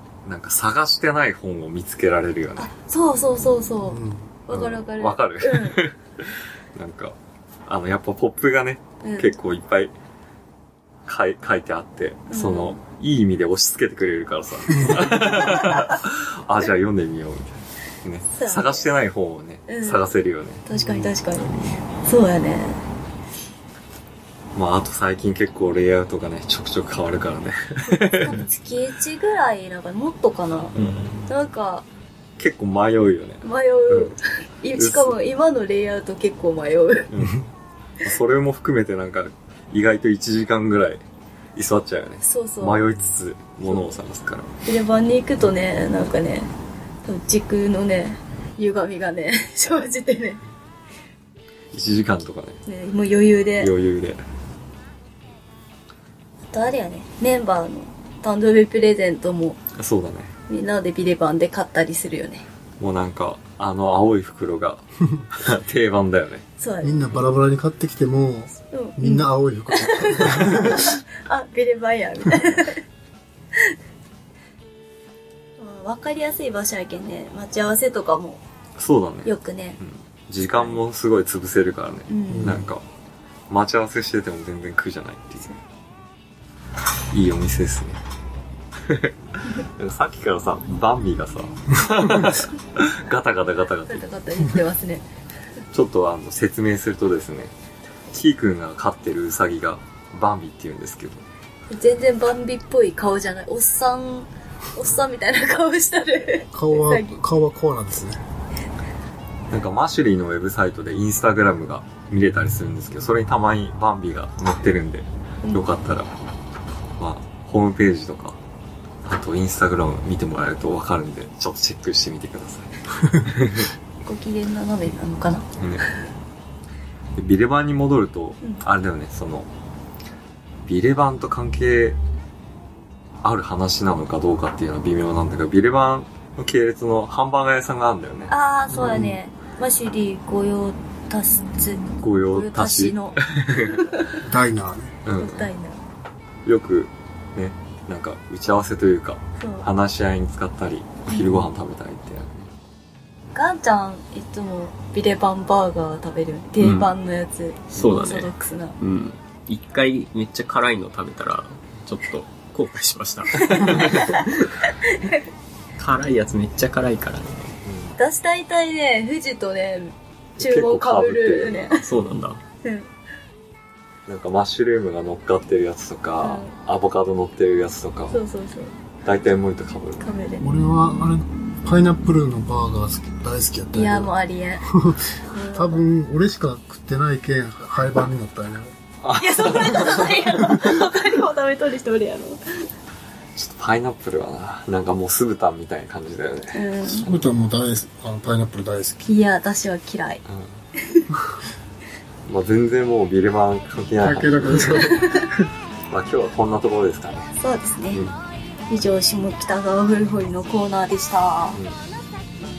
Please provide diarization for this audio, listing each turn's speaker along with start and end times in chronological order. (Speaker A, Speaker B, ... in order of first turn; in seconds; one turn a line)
Speaker A: 0.2-2.7
Speaker B: 2.6-5.8
Speaker C: 3.9-4.3
Speaker A: 4.5-7.2
Speaker A: 7.7-9.9
Speaker B: 9.0-9.4
Speaker A: 11.1-20.6
Speaker B: 12.3-12.8
Speaker B: 18.3-18.9
Speaker B: 19.7-20.1
Speaker B: 20.7-22.8
Speaker A: 24.6-28.4
Speaker B: 28.1-30.8
Speaker A: 30.8-31.3
Speaker B: 31.3-31.9
Speaker A: 32.4-34.1
Speaker B: 33.4-37.1
Speaker A: 34.7-35.1
Speaker A: 37.1-37.5
Speaker A: 38.0-41.0
Speaker A: 41.5-44.5
Speaker B: 42.2-42.9
Speaker B: 44.6-46.5
Speaker B: 47.0-50.4
Speaker A: 51.7-52.6
Speaker B: 52.7-53.7
Speaker A: 53.6-54.2
Speaker B: 56.5-59.6
Speaker A: 59.8-60.4
Speaker B: 60.5-62.5
Speaker A: 62.8-66.5
Speaker B: 66.6-67.1
Speaker C: 66.8-70.9
Speaker B: 68.6-72.8
Speaker B: 75.6-78.4
Speaker A: 78.8-82.8
Speaker B: 79.2-79.8
Speaker B: 82.1-82.6
Speaker C: 82.3-82.7
Speaker A: 83.5-85.5
Speaker A: 87.1-88.0
Speaker A: 88.8-94.0
Speaker B: 93.9-95.0
Speaker A: 95.7-97.5
Speaker A: 98.1-101.2
Speaker B: 101.7-107.2
Speaker C: 106.5-108.2
Speaker A: 109.5-116.1
Speaker A: 117.0-118.4
Speaker A: 119.0-123.7
Speaker B: 124.0-125.5
Speaker A: 125.6-125.8
Speaker A: 127.2-129.5
Speaker A: 130.7-132.0
Speaker A: 133.2-138.3
Speaker B: 138.3-144.2
Speaker C: 138.7-139.2
Speaker A: 142.0-143.8
Speaker C: 144.2-144.9
Speaker A: 145.1-145.5
Speaker B: 145.1-145.8
Speaker A: 146.5-152.5
Speaker B: 149.4-149.7
Speaker B: 153.3-158.8
Speaker D: 156.6-156.9
Speaker D: 157.7-164.7
Speaker B: 163.3-165.2
Speaker D: 165.8-167.6
Speaker A: 167.7-168.0
Speaker B: 168.0-171.9
Speaker A: 170.4-171.7
Speaker D: 171.7-172.4
Speaker B: 172.6-172.9
Speaker A: 174.1-178.2
Speaker B: 176.2-176.5
Speaker B: 178.1-178.7
Speaker A: 179.0-180.1
Speaker B: 180.0-180.5
Speaker C: 180.4-184.1
Speaker B: 183.7-184.7
Speaker C: 184.7-188.7
Speaker B: 185.2-185.8
Speaker A: 189.0-190.3
Speaker B: 189.2-192.6
Speaker A: 193.4-197.1
Speaker B: 196.5-197.1
Speaker C: 196.9-199.1
Speaker B: 199.0-200.2
Speaker A: 200.3-200.6
Speaker A: 202.3-204.8
Speaker C: 204.0-205.3
Speaker A: 205.9-207.3
Speaker B: 207.4-208.1
Speaker B: 208.7-211.6